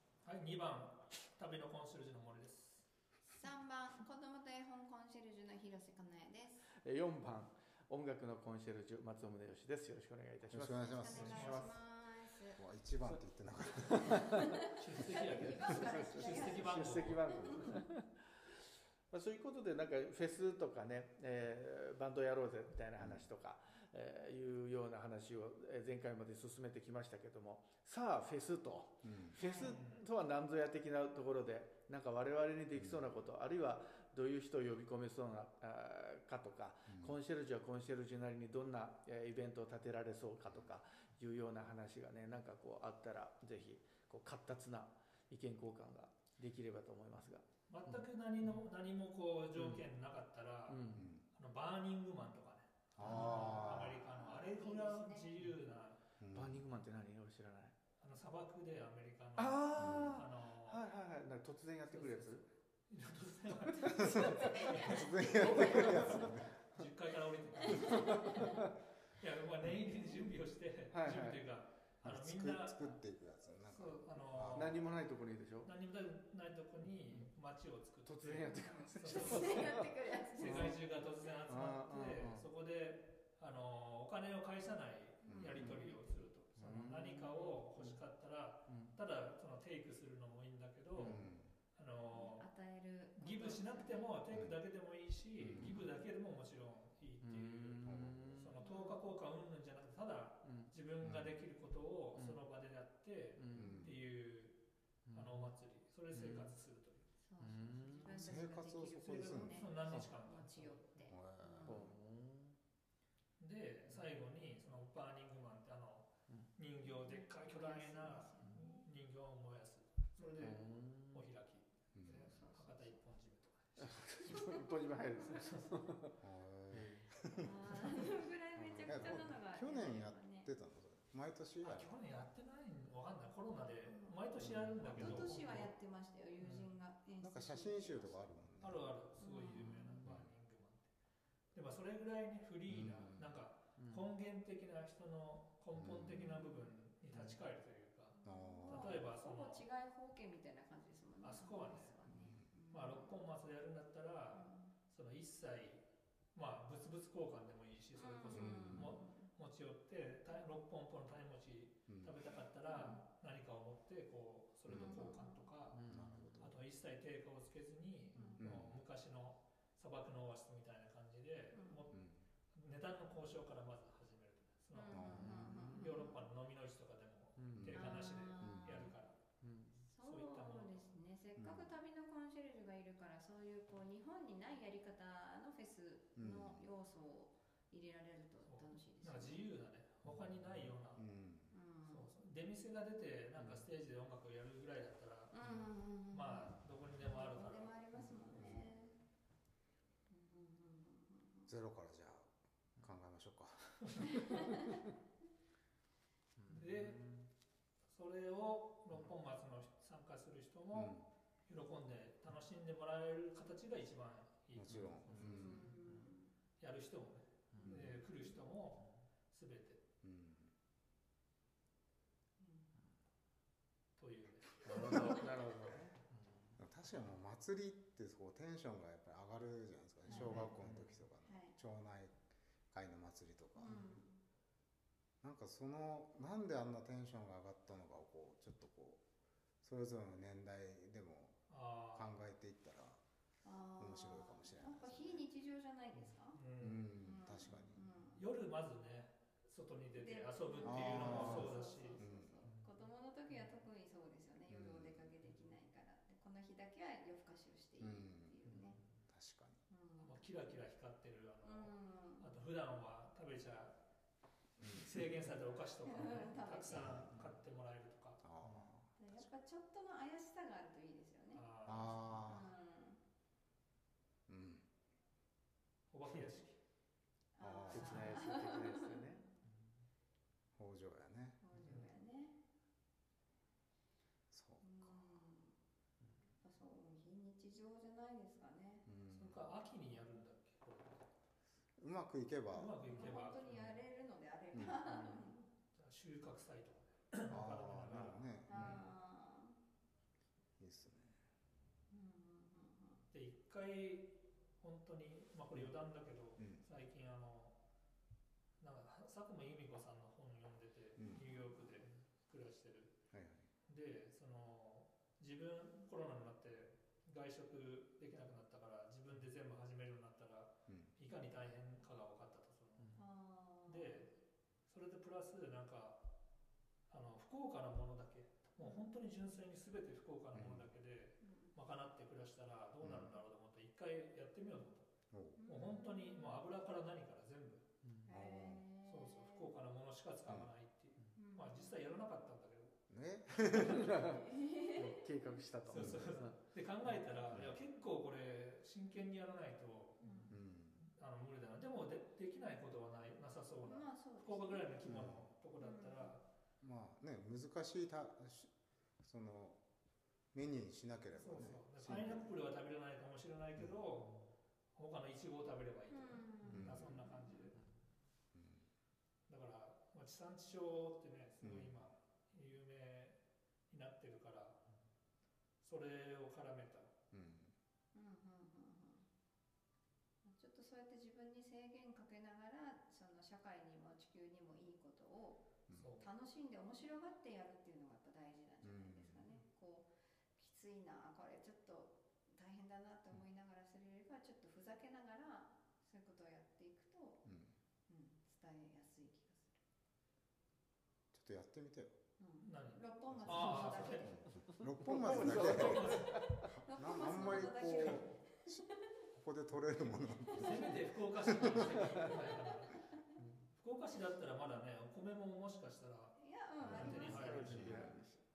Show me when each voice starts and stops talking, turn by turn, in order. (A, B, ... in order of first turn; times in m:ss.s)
0:00.2-0:02.9 A
0:03.3-0:06.6 B
0:06.7-0:11.8 C
0:10.5-0:11.6 D
0:10.7-0:12.6 B
0:11.2-0:11.6 A
0:12.6-0:14.3 D
0:13.9-0:18.5 C
0:14.6-0:16.7 B
0:14.7-0:17.8 A
0:19.1-0:48.0 C
0:23.0-0:23.3 D
0:29.0-0:29.4 D
0:29.4-0:29.8 B
0:29.5-0:30.0 A
0:32.7-0:33.0 D
0:36.9-0:37.2 D
0:47.7-0:56.0 A
0:49.5-0:49.9 C
0:50.7-0:51.1 C
0:50.9-0:51.2 D
0:53.0-0:54.0 D
0:53.0-0:53.4 C
0:53.1-0:55.5 B
0:56.2-0:56.6 D
0:56.3-0:57.8 C
0:58.0-1:00.8 A
0:59.4-1:02.4 C
0:59.8-1:00.2 D
1:01.9-1:13.0 A
1:03.6-1:06.8 C
1:03.9-1:06.5 D
1:07.6-1:08.6 B
1:07.8-1:08.7 C
1:10.9-1:11.4 C
1:12.0-1:14.8 D
1:13.6-1:14.8 A
1:14.5-1:15.7 C
1:15.6-1:19.8 A
1:16.8-1:17.3 C
1:18.0-1:20.8 C
1:18.4-1:20.7 B
1:20.4-1:32.5 A
1:21.5-1:22.4 C
1:25.2-1:25.8 D
1:25.3-1:25.9 C
1:26.6-1:28.0 C
1:28.7-1:29.0 C
1:31.0-1:31.3 C
1:31.0-1:31.5 D
1:32.1-1:34.1 B
1:33.2-1:44.6 A
1:34.3-1:34.6 D
1:35.4-1:35.8 D
1:37.2-1:38.5 C
1:37.8-1:38.5 D
1:38.6-1:39.0 B
1:40.4-1:40.7 C
1:41.0-1:41.3 D
1:43.4-1:43.9 C
1:43.5-1:43.9 D
1:45.1-1:45.5 C
1:45.1-1:47.1 A
1:46.1-1:46.5 C
1:47.2-1:51.8 B
1:47.4-1:48.2 C
1:48.1-1:49.7 D
1:49.0-1:50.9 A
1:49.8-1:50.1 C
1:51.1-1:51.9 D
1:51.6-1:52.6 C
1:53.4-2:04.6 A
1:56.8-1:58.9 B
2:00.2-2:01.2 C
2:01.9-2:02.5 D
2:02.3-2:03.0 B
2:03.8-2:06.1 C
2:05.2-2:05.7 A
2:06.2-2:07.5 D
2:06.7-2:07.1 C
2:07.3-2:10.5 B
2:08.6-2:12.0 D
2:11.6-2:15.7 A
2:13.8-2:14.2 B
2:14.4-2:15.6 D
2:15.0-2:18.2 B
2:17.2-2:18.9 D
2:18.6-2:20.9 A
2:19.2-2:20.0 B
2:19.6-2:20.2 C
2:20.0-2:20.3 D
2:21.5-2:28.2 A
2:22.7-2:23.3 D
2:23.8-2:24.1 C
2:25.7-2:26.5 D
2:27.1-2:27.4 C
2:28.2-2:33.2 B
2:28.2-2:29.0 D
2:28.7-2:29.6 A
2:31.2-2:31.9 A
2:32.1-2:32.5 D
2:32.7-2:35.8 A
2:34.3-2:34.7 B
2:36.3-2:45.8 A
2:38.0-2:39.3 B
2:38.3-2:39.0 D
2:41.9-2:42.2 D
2:42.6-2:43.0 B
2:44.6-2:45.2 D
2:44.7-2:45.5 B
2:45.7-2:46.5 C
2:45.9-2:46.6 D
2:46.4-2:52.0 A
2:48.1-2:48.4 B
2:48.4-2:48.8 D
2:51.5-2:51.8 B
2:51.9-2:52.2 D
2:52.5-2:59.2 A
2:54.7-2:56.2 B
2:54.9-2:55.6 D
2:55.1-2:56.0 C
2:57.4-2:57.8 C
2:57.5-2:58.9 D
2:57.7-2:58.9 B
2:59.4-2:59.8 C
2:59.9-3:09.4 B
3:00.0-3:00.9 A
3:01.4-3:01.7 D
3:06.2-3:06.6 D
3:08.4-3:11.0 A
3:10.9-3:11.5 D
3:11.5-3:12.1 B
3:11.9-3:15.3 A
3:15.3-3:19.0 B
3:16.1-3:17.7 A
3:18.4-3:18.7 D
3:20.1-3:21.5 B
3:21.5-3:24.4 D
3:24.1-3:24.8 B
3:26.4-3:27.3 C
3:26.5-3:27.0 A
3:27.9-3:31.0 A
3:30.7-3:31.1 D
3:31.5-3:35.5 A
3:34.5-3:35.7 D
3:34.7-3:36.1 C
3:35.3-3:36.3 B
3:36.6-3:39.8 A
3:37.5-3:37.8 C
3:37.6-3:38.0 D
3:40.0-3:40.5 D
3:42.4-3:42.7 B
3:44.0-3:45.2 A
3:44.6-3:46.6 C
3:44.7-3:45.2 D
3:46.6-3:52.1 D
3:50.1-3:50.6 B
3:50.1-3:51.0 C
3:51.2-3:51.6 B
3:52.7-3:54.0 D
3:53.6-3:54.2 B
3:55.2-3:59.0 D
3:59.6-4:01.4 D
4:01.5-4:02.1 A
4:01.9-4:03.0 D
4:03.4-4:06.4 B
4:03.8-4:05.2 D
4:06.3-4:06.9 A
4:06.6-4:07.8 D
4:07.0-4:08.2 B
4:08.2-4:12.0 A
4:10.0-4:18.8 B
4:10.6-4:12.5 D
4:12.4-4:12.7 C
4:14.5-4:15.1 D
4:17.8-4:18.3 D
4:18.4-4:19.0 C
4:19.1-4:19.6 D
4:19.7-4:20.2 B
4:20.0-4:23.8 A
4:21.4-4:22.3 B
4:24.6-4:24.9 D
4:24.6-4:28.2 A
4:25.8-4:27.0 B
4:26.7-4:27.2 D
4:27.1-4:27.3 C
4:28.2-4:29.3 D
4:28.4-4:28.7 C
4:29.0-4:31.4 B
4:31.3-4:32.2 A
4:31.6-4:32.5 D
4:32.2-4:33.0 B
4:34.3-4:34.6 D
4:35.9-4:36.6 A
4:37.3-4:39.3 B
4:37.4-4:38.1 D
4:37.7-4:39.7 C
4:40.6-4:41.4 D
4:41.4-4:42.4 B
4:41.5-4:41.9 C
4:44.3-4:45.0 D
4:44.6-4:45.5 B
4:46.4-4:48.8 B
4:48.8-4:49.5 D
4:49.1-4:51.0 A
4:51.8-4:52.7 D
4:52.5-4:53.6 A
4:52.9-4:55.5 B
4:54.5-4:54.8 D
4:54.8-4:55.2 C
4:55.8-4:58.8 A
4:57.3-4:58.8 D
4:58.5-4:59.6 B
5:00.6-5:01.2 D
5:01.9-5:03.0 B
5:03.1-5:07.6 A
5:08.6-5:13.0 A
5:11.0-5:11.3 D
5:11.1-5:11.7 B
5:13.1-5:13.5 D
5:13.7-5:22.9 A
5:20.7-5:20.9 D
5:22.8-5:23.0 C
5:23.0-5:24.0 B
5:23.7-5:24.1 A
5:24.7-5:26.0 A
5:26.9-5:34.9 A
5:28.6-5:28.9 B
5:30.3-5:30.7 D
5:31.2-5:31.5 B
5:32.8-5:33.2 D
5:35.1-5:35.4 D
5:35.4-5:36.4 B
5:35.4-5:37.6 A
5:37.8-5:38.1 C
5:38.1-5:39.5 B
5:38.1-5:38.6 D
5:38.8-5:42.8 A
5:41.1-5:41.7 B
5:42.9-5:43.9 D
5:43.4-5:43.9 A
5:43.5-5:47.4 C
5:44.0-5:45.0 B
5:45.7-5:50.0 A
5:45.7-5:46.0 D
5:47.3-5:47.6 D
5:50.0-5:50.3 B
5:50.3-5:50.8 D
5:50.8-5:56.2 A
5:53.6-5:54.8 B
5:54.8-5:55.3 D
5:55.6-5:56.1 B
5:56.6-5:59.6 D
6:00.3-6:02.3 D
6:01.1-6:04.1 A
6:04.8-6:07.6 A
6:05.9-6:07.5 B
6:06.5-6:06.8 C
6:06.5-6:06.9 D
6:08.3-6:08.7 D
6:09.3-6:13.2 A
6:11.4-6:11.7 D
6:13.7-6:14.6 A
6:15.6-6:16.9 A
6:17.1-6:17.5 D
6:17.9-6:19.0 B
6:20.2-6:25.5 B
6:25.7-6:26.1 A
6:26.0-6:37.2 B
6:28.6-6:29.3 D
6:37.2-6:37.5 D
6:37.9-6:39.6 B
6:41.1-6:42.0 D
6:42.2-6:44.2 B
6:42.4-6:44.2 A
6:43.1-6:48.6 D
6:44.5-6:46.5 C
6:45.0-6:46.2 A
6:46.4-6:49.0 B
6:47.4-6:48.0 A
6:49.1-6:51.8 D
6:50.2-6:50.7 B
6:50.3-6:52.8 A
6:53.2-6:53.5 C
6:53.6-6:57.9 A
6:56.2-6:57.8 B
6:56.6-6:58.0 D
6:56.7-6:58.2 C